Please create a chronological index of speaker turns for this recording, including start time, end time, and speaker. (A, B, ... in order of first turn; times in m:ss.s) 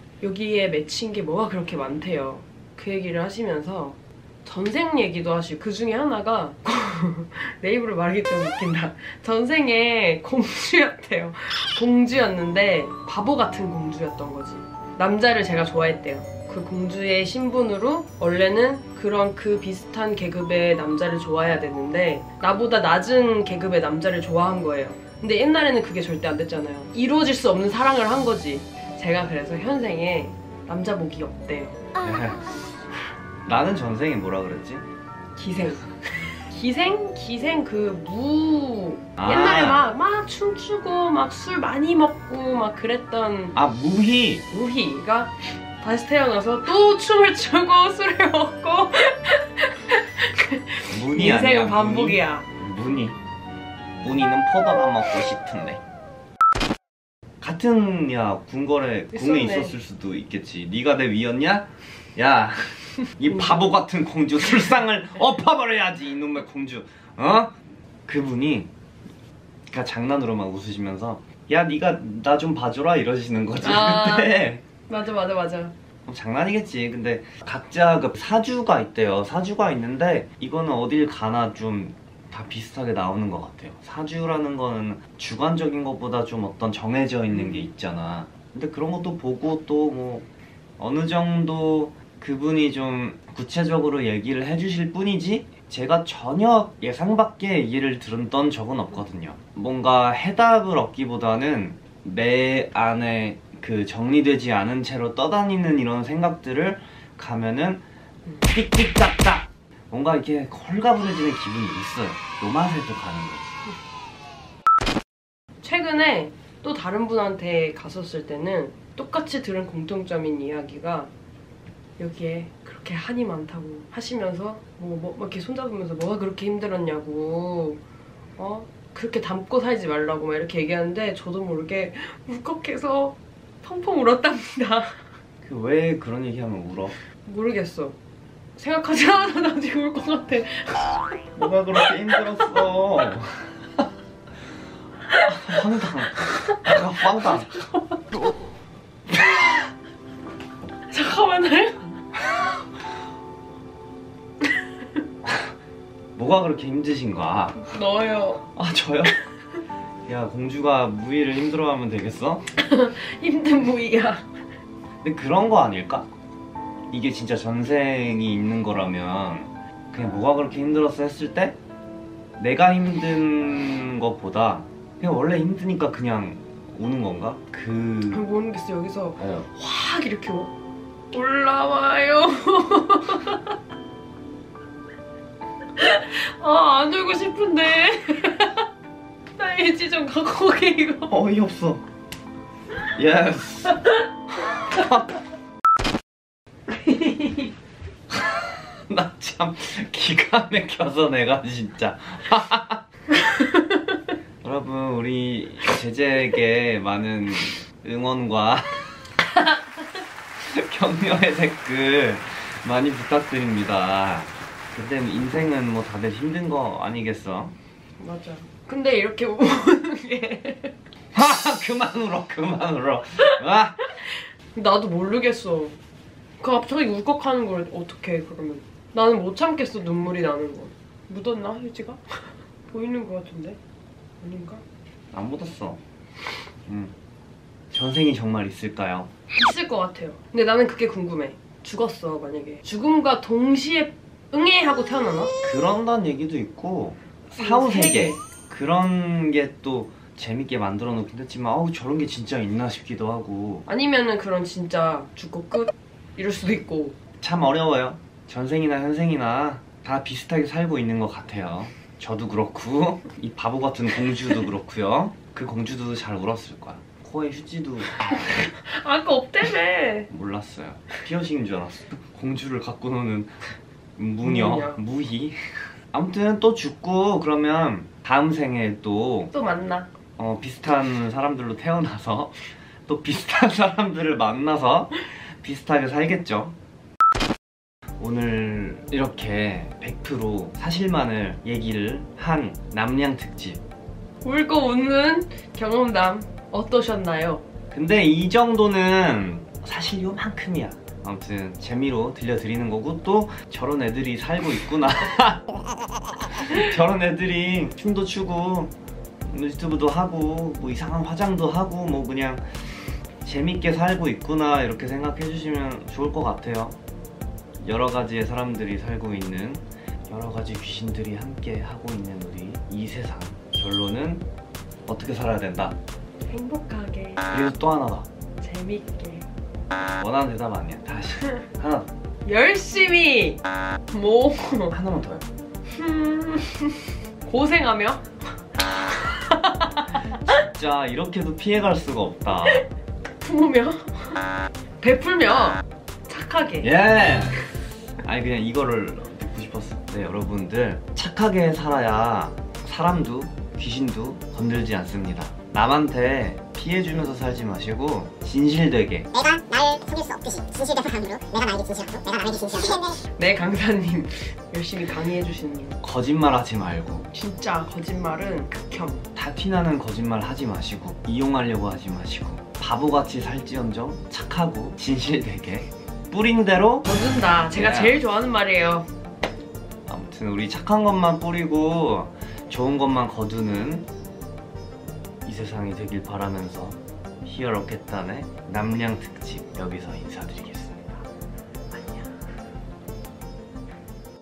0:00.2-0:31.8 A
0:32.0-0:32.6 B
0:33.4-0:34.8 B
0:35.4-0:43.6 A
0:39.2-0:39.8 B
0:43.5-0:44.4 B
0:44.5-0:52.5 A
0:50.9-0:53.2 B
0:54.0-0:55.8 B
0:57.4-1:07.5 B
0:59.1-0:59.8 A
1:08.1-1:08.7 B
1:09.7-1:14.6 B
1:13.6-1:15.7 A
1:16.1-1:30.3 B
1:27.3-1:27.7 A
1:30.8-1:47.8 B
1:48.4-1:53.6 B
1:55.6-2:01.1 A
2:02.0-2:07.8 A
2:08.4-2:15.0 A
2:15.4-2:17.0 B
2:17.2-2:18.0 A
2:18.6-2:21.0 A
2:21.3-2:23.6 B
2:21.9-2:22.2 A
2:25.2-2:27.5 B
2:27.4-2:27.8 A
2:30.9-2:32.0 A
2:35.2-2:35.5 B
2:36.2-2:37.7 B
2:37.6-2:38.4 A
2:38.5-2:39.2 B
2:40.0-2:42.4 B
2:42.5-2:44.3 A
2:45.0-2:46.1 B
2:46.9-2:51.6 B
2:52.4-2:58.2 B
2:58.1-3:00.5 A
2:59.2-2:59.4 B
3:01.1-3:03.5 A
3:05.8-3:08.6 A
3:09.4-3:11.1 A
3:11.1-3:11.8 B
3:12.9-3:13.8 B
3:14.7-3:15.1 B
3:16.7-3:17.5 A
3:18.1-3:22.8 B
3:23.3-3:23.9 A
3:24.4-3:28.8 B
3:30.4-3:37.5 B
3:38.0-3:40.7 A
3:41.1-3:43.8 B
3:44.5-3:45.8 A
3:46.4-3:53.6 A
3:54.2-3:54.6 A
3:55.1-3:55.8 B
3:56.7-3:56.9 B
3:57.7-3:59.1 B
3:59.3-4:05.3 A
4:05.4-4:13.7 B
4:07.4-4:08.2 A
4:13.7-4:17.0 A
4:17.2-4:28.1 B
4:28.2-4:30.1 A
4:30.1-4:33.4 B
4:34.0-4:35.4 B
4:34.2-4:34.8 A
4:35.9-4:39.3 B
4:39.3-4:39.9 A
4:40.2-4:46.6 B
4:48.0-4:53.6 B
4:54.2-4:57.4 A
4:57.7-5:05.4 B
5:06.3-5:08.7 B
5:09.3-5:12.4 B
5:13.2-5:16.8 B
5:17.6-5:24.2 B
5:24.9-5:25.8 B
5:26.3-5:27.2 A
5:27.3-5:28.1 B
5:28.4-5:29.3 A
5:30.0-5:31.9 B
5:32.2-5:34.8 A
5:34.7-5:35.3 B
5:35.7-5:38.0 A
5:38.9-5:40.2 A
5:40.2-5:42.6 B
5:43.2-5:44.2 A
5:44.8-5:46.7 A
5:46.6-5:47.5 B
5:48.0-5:59.1 B
5:59.1-6:03.0 C
6:02.8-6:05.8 A
6:05.8-6:07.1 B
6:07.1-6:09.0 A
6:09.1-6:16.9 B
6:16.8-6:18.9 A
6:17.5-6:18.0 B
6:19.9-6:23.9 B
6:25.2-6:31.0 B